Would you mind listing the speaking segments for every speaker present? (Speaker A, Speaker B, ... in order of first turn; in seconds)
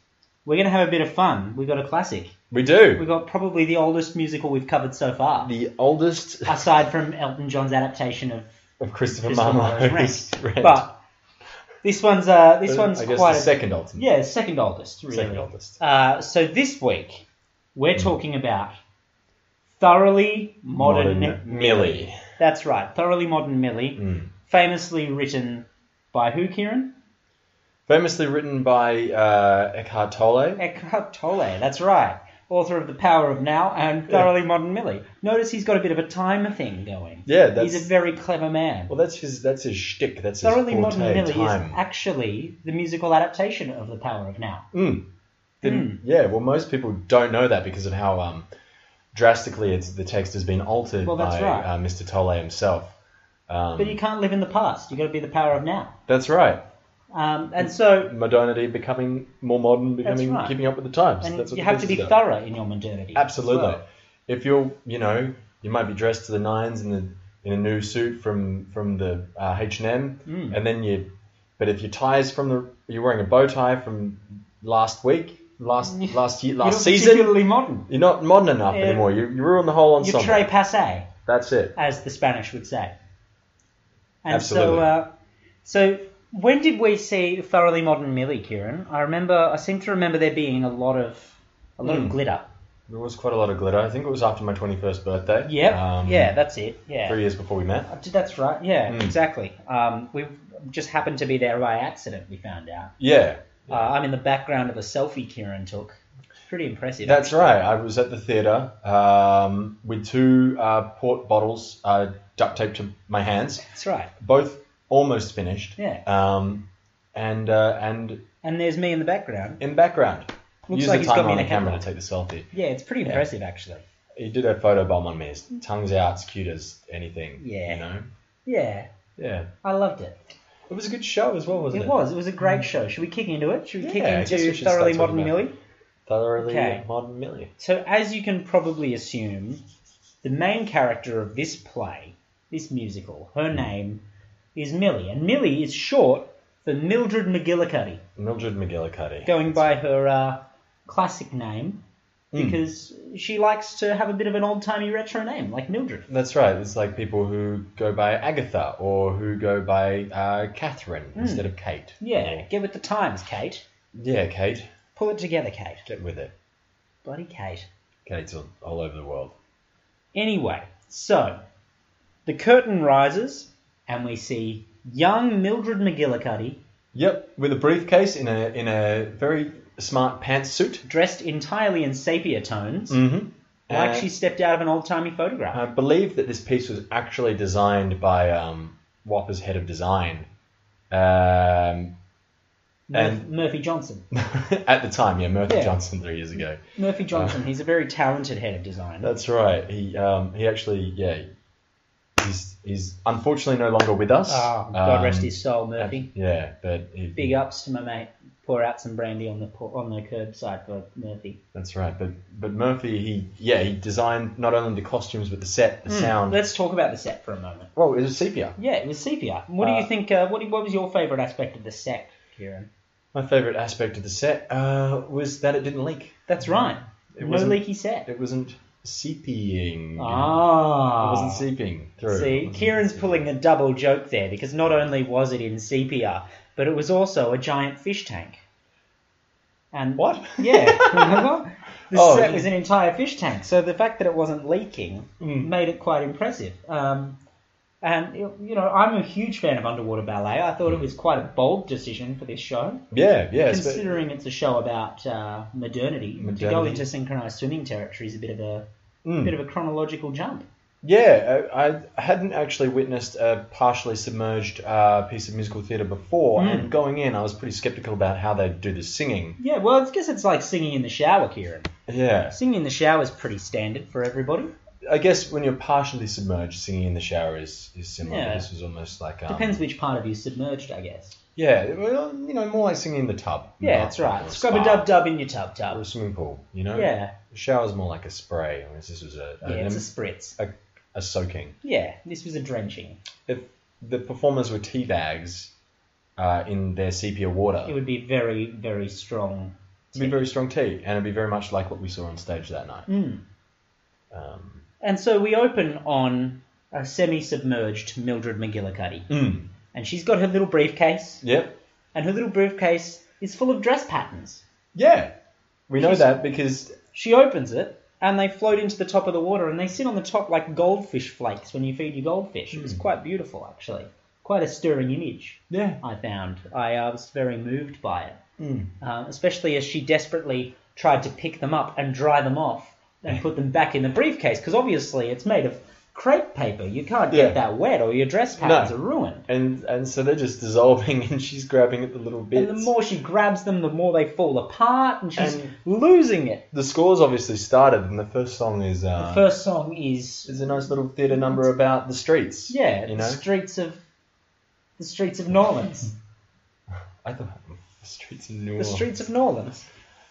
Speaker A: 0.4-2.3, 3.0-5.5, 6.5-8.5, 9.1-10.9, 11.8-18.8, 19.7-26.9, 30.6-38.9, 40.4-44.7, 45.6-46.0, 51.0-51.7, 53.8-55.9, 57.1-58.1, 60.0-60.5, 61.2-63.8, 70.2-70.6, 75.8-77.9, 78.7-79.1, 80.0-81.1, 81.8-83.0, 84.2-85.1, 85.6-92.5, 95.4-97.2, 97.9-102.9, 103.7-107.6, 113.7-114.1, 115.8-116.0, 118.4-119.6, 120.7-121.8, 122.5-123.8, 127.4-127.8, 128.4-128.9, 129.6-130.2, 131.7-135.5, 136.4-136.8, 137.6-139.6, 140.2-144.0, 144.5-148.0, 149.2-151.8, 152.3-156.1, 161.2-161.5, 162.0-163.6, 164.9-165.8, 167.0-167.7, 170.1-171.4, 172.2-176.6, 180.8-183.0, 183.7-185.6, 192.9-194.0, 195.5-195.8, 196.7-199.2, 204.3-206.1, 207.2-211.4, 215.8-217.7, 218.6-222.7, 226.3-228.1, 230.0-231.4, 232.1-238.4, 239.7-247.2, 247.8-252.8, 253.4-258.7, 259.2-260.5, 266.4-266.7, 269.4-271.7, 272.3-274.5, 278.0-278.5, 279.3-281.2, 283.6-285.8, 286.7-287.1, 289.4-290.4, 291.6-293.0, 297.6-300.2, 302.9-303.2, 304.8-309.1, 309.7-311.2, 311.9-314.4, 315.8-316.1, 316.9-328.2, 328.8-339.2, 342.3-346.4, 349.0-350.4, 352.5-353.8, 354.8-355.9, 358.6-359.6
Speaker B: 2.5-3.0, 5.4-6.7, 8.8-10.8, 12.7-14.1, 15.1-15.8, 20.8-22.2, 24.0-24.3, 27.9-30.6, 37.2-37.9, 38.9-41.8, 44.7-45.0, 45.6-48.5, 49.1-52.9, 53.5-54.0, 56.1-56.6, 57.6-62.1, 63.1-71.1, 71.6-80.5, 81.2-81.7, 84.3-84.9, 91.8-92.2, 92.9-96.3, 97.0-97.9, 98.9-99.2, 103.0-103.9, 107.0-113.7, 114.2-118.2, 119.6-122.5, 124.2-128.1, 129.2-129.5, 130.7-132.7, 133.8-135.4, 136.1-137.5, 148.2-149.6, 152.3-152.6, 156.1-162.5, 163.9-164.7, 165.8-166.3, 168.1-169.3, 176.9-180.8, 182.9-184.1, 185.5-190.3, 190.9-191.9, 192.9-193.2, 194.1-196.6, 197.1-197.4, 199.0-201.2, 202.2-207.4, 211.5-216.4, 217.7-218.6, 219.6-219.9, 223.1-226.2, 227.2-230.4, 231.0-233.3, 240.0-241.3, 241.9-242.5, 245.2-245.5, 252.9-253.9, 256.2-256.8, 259.0-259.3, 260.8-269.4, 271.9-272.4, 274.9-279.6, 281.4-284.9, 285.7-289.9, 290.4-291.6, 293.2-295.5, 296.2-297.7, 299.9-302.9, 304.1-304.6, 309.1-309.5, 311.2-311.5, 314.7-315.1, 315.7-316.7, 322.5-322.8, 325.5-325.8, 328.4-328.7, 337.1-337.4, 338.4-338.7, 339.3-342.7, 345.1-345.5, 346.5-349.2, 350.3-353.2, 357.0-358.9